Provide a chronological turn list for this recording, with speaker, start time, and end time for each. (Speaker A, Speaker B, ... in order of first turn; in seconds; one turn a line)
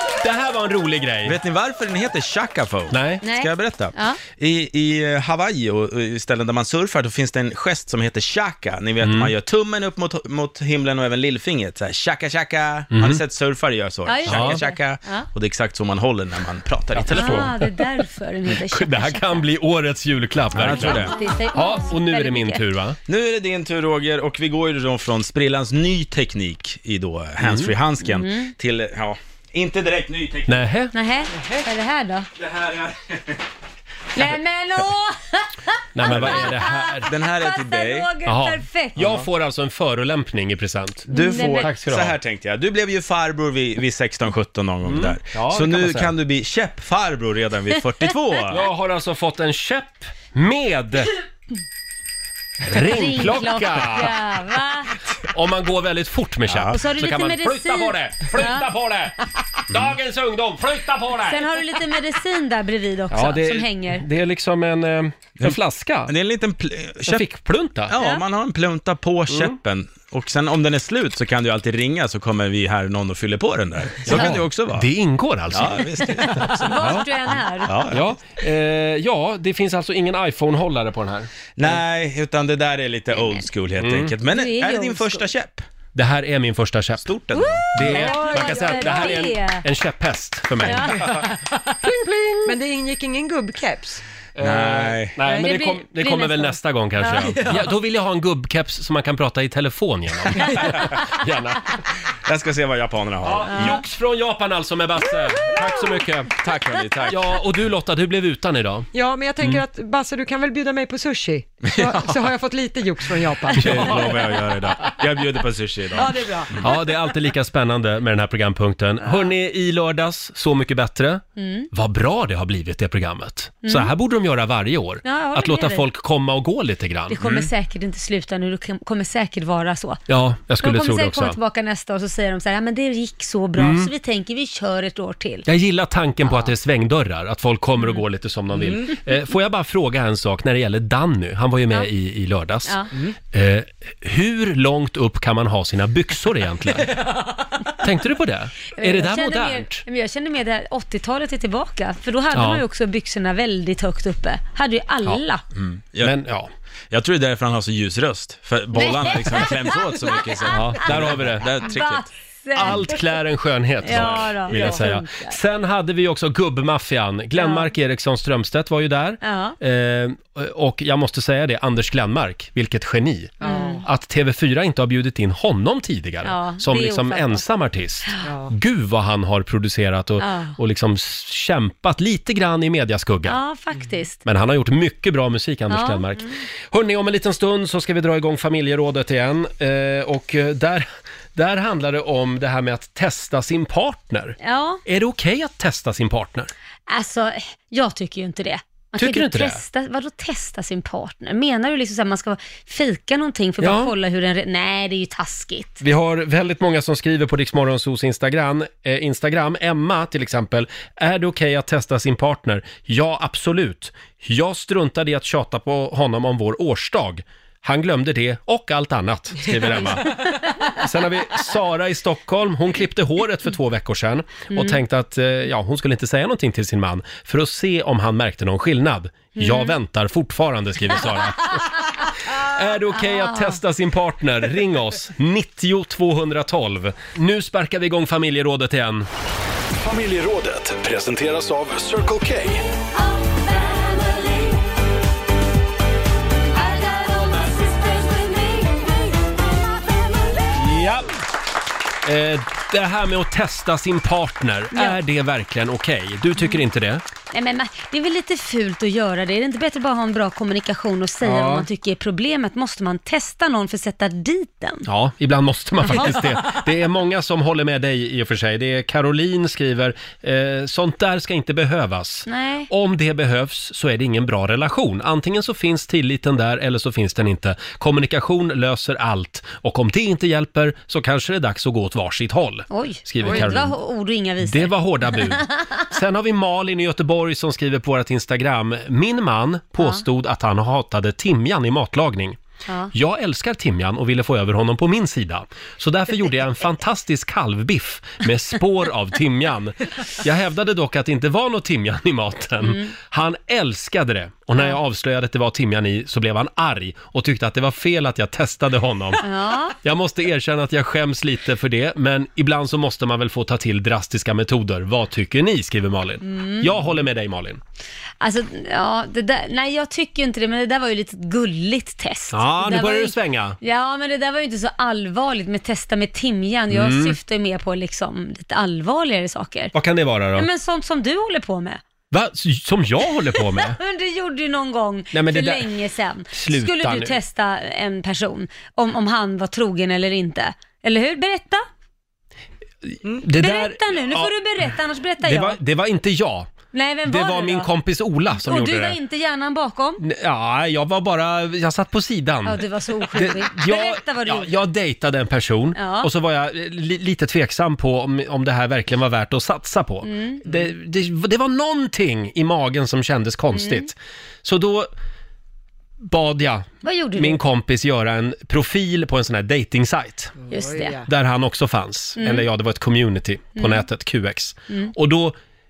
Speaker A: 0.2-1.4
Speaker B: 1.2-17.5
Speaker A: 2.9-3.2
Speaker C: 3.2-4.2
Speaker A: 9.0-9.3
Speaker A: 12.9-13.2
Speaker C: 14.1-15.2
Speaker A: 14.2-14.6
Speaker A: 16.9-17.6
Speaker C: 17.1-19.4
Speaker A: 18.7-23.0
Speaker B: 20.5-21.2
Speaker C: 20.7-22.6
Speaker B: 23.1-30.6
Speaker A: 27.4-27.7
Speaker C: 28.0-28.5
Speaker A: 30.5-30.9
Speaker C: 30.9-32.3
Speaker B: 32.4-33.4
Speaker C: 34.1-39.0
Speaker A: 35.9-37.1
Speaker B: 36.0-38.1
Speaker A: 38.2-42.2
Speaker B: 39.0-39.2
Speaker B: 41.1-48.6
Speaker C: 41.1-41.7
Speaker A: 44.8-46.1
Speaker A: 48.5-51.1
Speaker A: 52.6-54.1
Speaker C: 52.7-54.9
Speaker A: 55.2-61.4
Speaker B: 56.5-56.8
Speaker C: 56.7-58.6
Speaker C: 61.2-64.0
Speaker A: 63.1-66.1
Speaker B: 65.4-67.2
Speaker A: 67.0-67.9
Speaker B: 67.9-74.9
Speaker C: 67.9-68.2
Speaker A: 69.3-69.6
Speaker A: 74.0-77.0
Speaker B: 75.5-77.1
Speaker C: 76.4-77.7
Speaker B: 77.6-78.0
Speaker A: 77.9-81.8
Speaker B: 81.6-85.6
Speaker C: 83.1-83.4
Speaker A: 83.8-84.1
Speaker C: 84.2-85.3
Speaker A: 85.9-87.1
Speaker B: 87.0-88.2
Speaker C: 87.3-89.6
Speaker A: 87.7-91.1
Speaker D: 87.9-89.1
Speaker C: 90.6-91.2
Speaker D: 92.4-94.0
Speaker A: 94.3-101.6
Speaker B: 94.4-95.2
Speaker D: 95.2-95.5
Speaker C: 95.4-97.4
Speaker B: 100.4-101.0
Speaker B: 102.2-103.8
Speaker A: 103.2-108.9
Speaker B: 106.4-107.2
Speaker D: 108.9-114.2
Speaker B: 111.7-112.2
Speaker B: 113.5-116.6
Speaker A: 113.6-114.0
Speaker D: 115.9-116.6
Speaker A: 116.6-127.2
Speaker C: 119.0-119.3
Speaker C: 121.4-121.7
Speaker C: 123.6-123.9
Speaker C: 125.0-125.9
Speaker C: 127.1-130.0
Speaker B: 127.2-127.5
Speaker A: 130.1-131.4
Speaker C: 130.6-135.5
Speaker A: 133.6-133.9
Speaker A: 135.4-142.8
Speaker A: 143.3-146.9
Speaker A: 147.8-149.8
Speaker C: 148.8-155.4
Speaker A: 152.3-152.6
Speaker B: 155.6-156.2
Speaker A: 156.0-156.5
Speaker B: 156.9-162.1
Speaker C: 158.7-160.2
Speaker A: 160.5-161.5
Speaker C: 161.5-163.0
Speaker A: 162.5-183.4
Speaker C: 163.8-165.3
Speaker B: 163.8-164.4
Speaker D: 164.5-164.8
Speaker C: 167.3-167.7
Speaker C: 169.2-169.6
Speaker D: 173.4-173.9
Speaker C: 173.4-173.8
Speaker C: 176.2-177.4
Speaker D: 178.2-178.5
Speaker C: 180.2-180.6
Speaker C: 183.2-184.2
Speaker A: 184.2-196.5
Speaker C: 185.7-186.3
Speaker C: 194.4-194.8
Speaker C: 196.9-205.8
Speaker A: 199.0-199.6
Speaker A: 203.6-203.9
Speaker A: 205.8-239.1
Speaker C: 224.5-224.8
Speaker C: 229.4-229.7
Speaker C: 233.0-233.6
Speaker E: 239.8-242.6
Speaker C: 243.0-244.6
Speaker C: 246.5-249.3
Speaker A: 250.5-251.1
Speaker A: 252.0-257.0
Speaker C: 254.7-255.0
Speaker C: 257.3-264.9
Speaker A: 261.2-261.7
Speaker A: 264.9-283.8
Speaker C: 272.3-272.7
Speaker C: 282.7-285.8
Speaker D: 283.2-283.5
Speaker A: 284.4-292.4
Speaker C: 289.8-290.0
Speaker C: 292.7-292.9
Speaker A: 292.9-309.2
Speaker C: 302.6-302.9
Speaker C: 309.2-309.8
Speaker A: 309.8-317.6
Speaker C: 316.2-316.7
Speaker C: 318.2-329.7
Speaker A: 322.3-323.6
Speaker A: 326.7-327.1
Speaker A: 329.7-330.5
Speaker C: 330.4-331.8
Speaker A: 332.1-333.8
Speaker C: 333.4-341.6
Speaker A: 335.1-335.7
Speaker A: 336.3-337.1
Speaker A: 342.8-344.3
Speaker C: 343.3-345.6
Speaker A: 345.2-346.5
Speaker C: 346.7-347.7
Speaker A: 347.1-349.0
Speaker C: 348.3-350.0
Speaker A: 350.0-352.6
Speaker C: 352.4-354.5
Speaker A: 353.1-364.9
Speaker C: 355.8-356.1
Speaker C: 360.0-360.4
Speaker C: 363.5-363.9
Speaker A: 366.0-370.3
Speaker C: 366.8-367.4
Speaker D: 370.4-371.1
Speaker C: 370.5-370.9
Speaker A: 371.1-375.4
Speaker C: 372.2-372.5
Speaker C: 373.6-373.8